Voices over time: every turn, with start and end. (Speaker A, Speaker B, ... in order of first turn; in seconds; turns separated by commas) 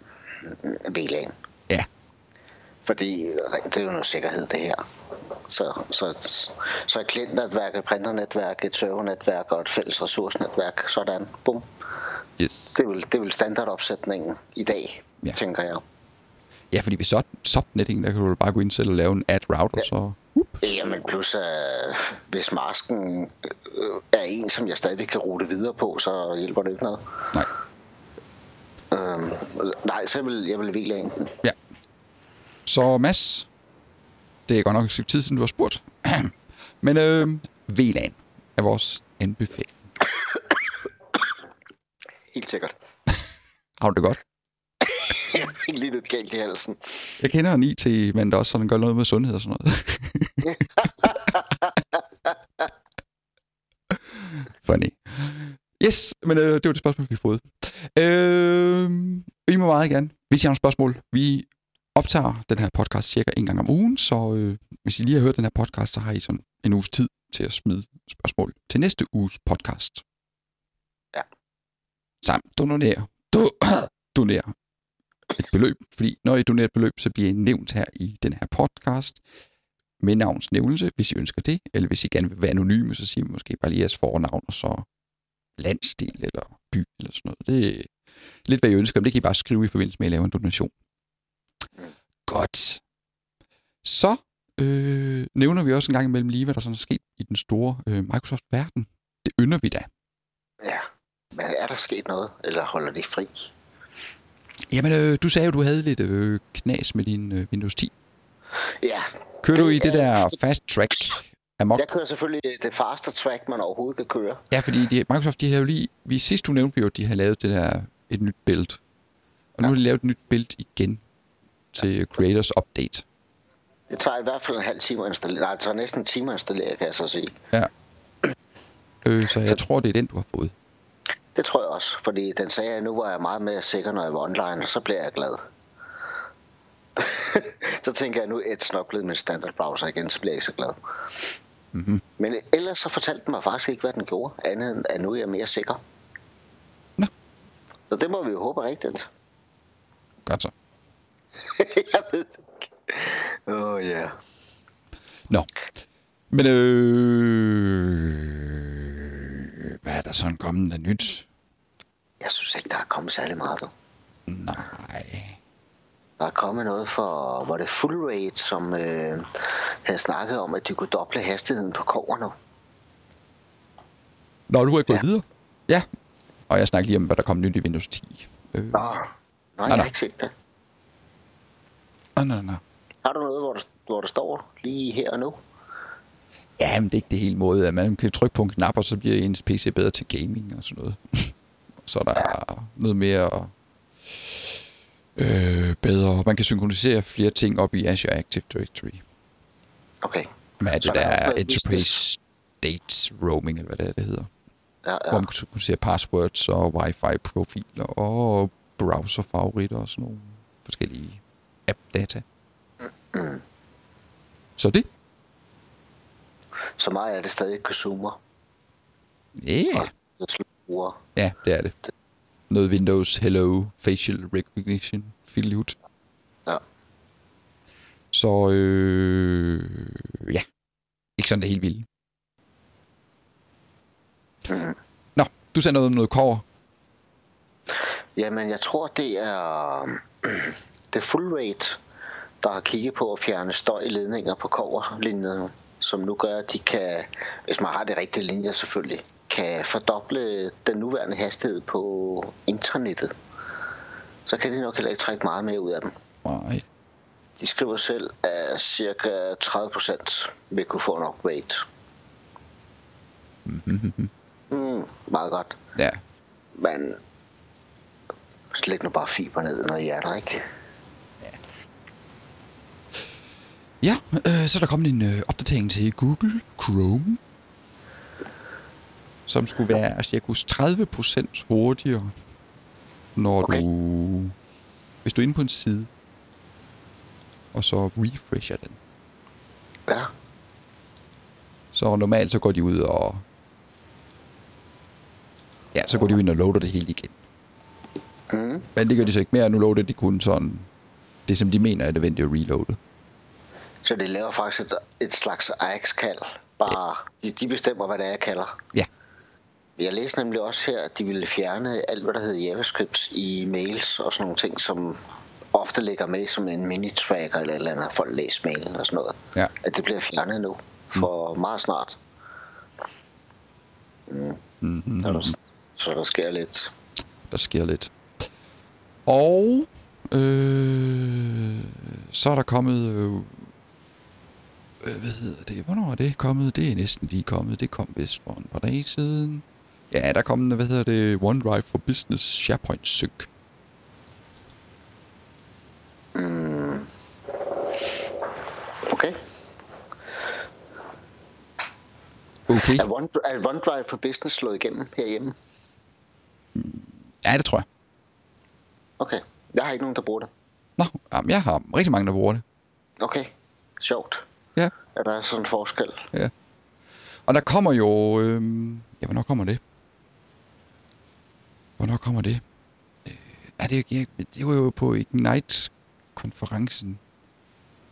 Speaker A: 0.4-1.3, Speaker A: 2.9-4.8, Speaker A: 5.5-11.7, Speaker B: 12.4-12.7, Speaker A: 12.7-15.8, Speaker B: 16.7-20.7, Speaker A: 20.6-27.4, Speaker A: 28.9-31.4, Speaker B: 32.6-33.5, Speaker B: 34.5-39.8, Speaker A: 42.3-42.7, Speaker B: 43.8-44.2, Speaker A: 44.8-47.2, Speaker B: 47.2-51.2, Speaker A: 50.5-51.8, Speaker B: 53.9-70.0, Speaker B: 72.2-74.5, Speaker B: 75.3-79.2, Speaker B: 80.0-84.8, Speaker B: 85.6-87.9, Speaker B: 88.5-90.7, Speaker B: 92.3-92.8, Speaker B: 93.8-99.9, Speaker A: 100.6-103.5, Speaker B: 104.7-107.9, Speaker A: 108.8-110.3, Speaker B: 109.4-111.8, Speaker A: 111.8-114.4, Speaker B: 114.5-118.8, Speaker B: 119.5-121.0, Speaker B: 121.7-123.0, Speaker A: 123.9-127.3, Speaker B: 129.0-130.5, Speaker A: 131.3-135.4, Speaker A: 136.9-141.2, Speaker B: 141.7-142.0, Speaker A: 142.2-145.8, Speaker A: 147.9-149.1, Speaker B: 150.2-150.5, Speaker A: 151.4-154.1, Speaker B: 156.3-161.2, Speaker A: 162.2-163.7, Speaker B: 164.3-165.4, Speaker A: 166.2-172.3, Speaker B: 174.5-175.8, Speaker B: 176.5-178.9, Speaker A: 178.7-180.3, Speaker B: 179.7-179.9, Speaker B: 182.2-182.6, Speaker A: 183.0-185.4, Speaker B: 186.6-193.5, Speaker B: 194.1-194.6, Speaker B: 195.2-199.0, Speaker A: 200.0-202.0, Speaker B: 200.6-204.3, Speaker A: 204.8-205.3, Speaker B: 205.1-212.2, Speaker A: 212.8-213.4, Speaker B: 214.6-214.9, Speaker A: 216.8-218.2, Speaker B: 219.3-219.9, Speaker A: 219.8-221.0, Speaker B: 221.2-221.7, Speaker B: 222.5-225.8, Speaker B: 228.1-230.4, Speaker B: 231.2-231.9, Speaker A: 234.5-234.8, Speaker B: 235.2-236.4, Speaker A: 238.2-241.8, Speaker A: 242.4-253.1, Speaker A: 254.2-255.9, Speaker B: 256.2-256.6, Speaker A: 257.4-261.6, Speaker B: 263.4-264.1, Speaker A: 264.5-265.6, Speaker A: 266.6-267.0, Speaker A: 268.5-270.4, Speaker B: 273.8-277.2, Speaker B: 279.3-282.1, Speaker B: 283.1-284.3, Speaker B: 285.0-285.9, Speaker B: 287.5-288.8, Speaker B: 291.7-293.2, Speaker B: 295.7-297.1, Speaker A: 298.3-298.7, Speaker B: 298.8-300.7, Speaker B: 301.3-302.8, Speaker A: 303.8-308.6, Speaker A: 309.8-315.0, Speaker A: 315.5-322.0, Speaker A: 324.1-324.4, Speaker B: 324.6-325.4, Speaker A: 325.0-326.7, Speaker B: 327.3-327.9, Speaker B: 329.1-333.5, Speaker B: 334.8-343.3, Speaker A: 346.1-346.9, Speaker A: 348.8-349.2, Speaker B: 352.5-352.9, Speaker A: 352.6-355.3, Speaker B: 356.6-357.6, Speaker A: 359.0-360.3, Speaker B: 360.8-362.4, Speaker A: 363.0-364.2, Speaker A: 364.9-366.1, Speaker B: 367.2-369.6, Speaker B: 371.8-372.4, Speaker B: 373.0-377.0